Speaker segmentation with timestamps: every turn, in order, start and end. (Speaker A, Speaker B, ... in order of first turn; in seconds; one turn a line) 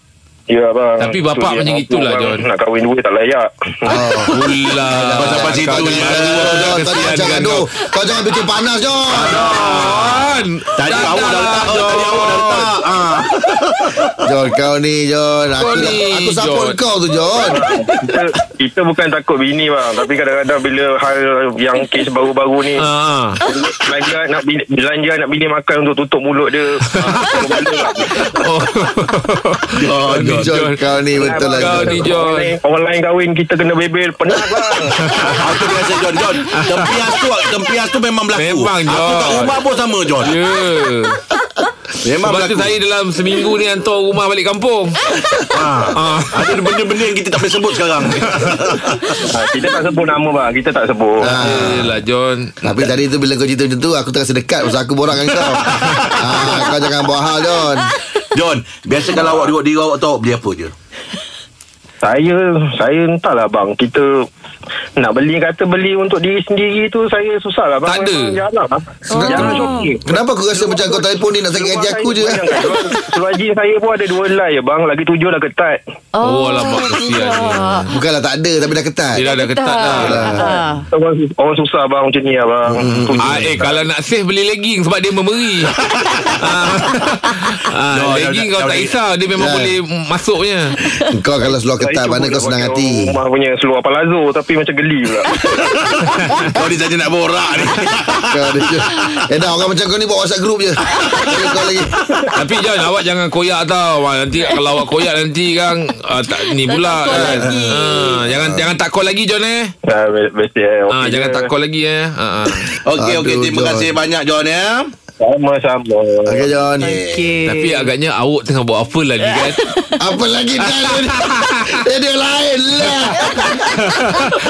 Speaker A: 0.5-4.1
Speaker B: 1.0-2.5
Speaker C: 3.9-9.7
Speaker B: 3.9-7.7
Speaker D: 4.9-6.9
Speaker B: 9.1-12.8
Speaker D: 9.2-10.2
Speaker D: 10.8-14.2
Speaker C: 14.2-17.6
Speaker B: 15.6-16.8
Speaker A: 17.4-22.9
Speaker B: 22.8-23.4
Speaker A: 23.4-28.3
Speaker B: 26.9-27.5
Speaker B: 28.2-32.5
Speaker D: 29.8-30.4
Speaker C: 30.1-32.2
Speaker A: 31.2-35.2
Speaker B: 34.9-35.4
Speaker D: 35.4-40.3
Speaker B: 36.5-37.0
Speaker B: 38.4-39.6
Speaker B: 40.2-41.2
Speaker D: 42.0-42.7
Speaker B: 42.2-45.0
Speaker D: 45.2-49.3
Speaker B: 45.9-46.8
Speaker B: 48.2-48.5
Speaker A: 49.3-51.4
Speaker C: 51.2-51.9
Speaker D: 51.3-51.9
Speaker B: 51.4-52.6
Speaker C: 52.6-57.9
Speaker D: 55.4-56.7
Speaker B: 55.8-56.4
Speaker D: 58.3-60.7
Speaker A: 62.0-64.2
Speaker A: 65.0-75.8
Speaker B: 67.9-68.4
Speaker E: 69.1-70.0
Speaker C: 69.1-72.7
Speaker E: 76.2-77.9
Speaker B: 76.2-77.9
Speaker C: 77.9-79.3
Speaker B: 79.2-80.4
Speaker E: 79.2-80.9
Speaker C: 79.9-80.5
Speaker A: 80.9-83.9
Speaker C: 82.7-83.5
Speaker B: 83.2-90.7
Speaker D: 85.8-86.5
Speaker D: 87.9-88.9
Speaker C: 89.4-89.7
Speaker E: 90.8-91.1
Speaker C: 91.1-93.1
Speaker A: 91.8-95.4
Speaker E: 95.3-95.7
Speaker D: 95.4-98.5
Speaker C: 98.3-102.2
Speaker E: 101.0-101.3
Speaker B: 102.3-109.7
Speaker E: 106.3-108.2
Speaker D: 107.1-107.6
Speaker C: 108.2-108.7
Speaker A: 109.9-111.5
Speaker B: 110.9-112.7
Speaker D: 112.8-114.9
Speaker C: 112.9-113.9
Speaker A: 115.2-116.5
Speaker C: 116.2-117.0
Speaker E: 116.8-117.9
Speaker D: 116.8-117.3
Speaker B: 117.5-119.6
Speaker E: 119.3-120.0
Speaker C: 120.0-124.2
Speaker B: 120.6-121.8
Speaker B: 123.9-124.3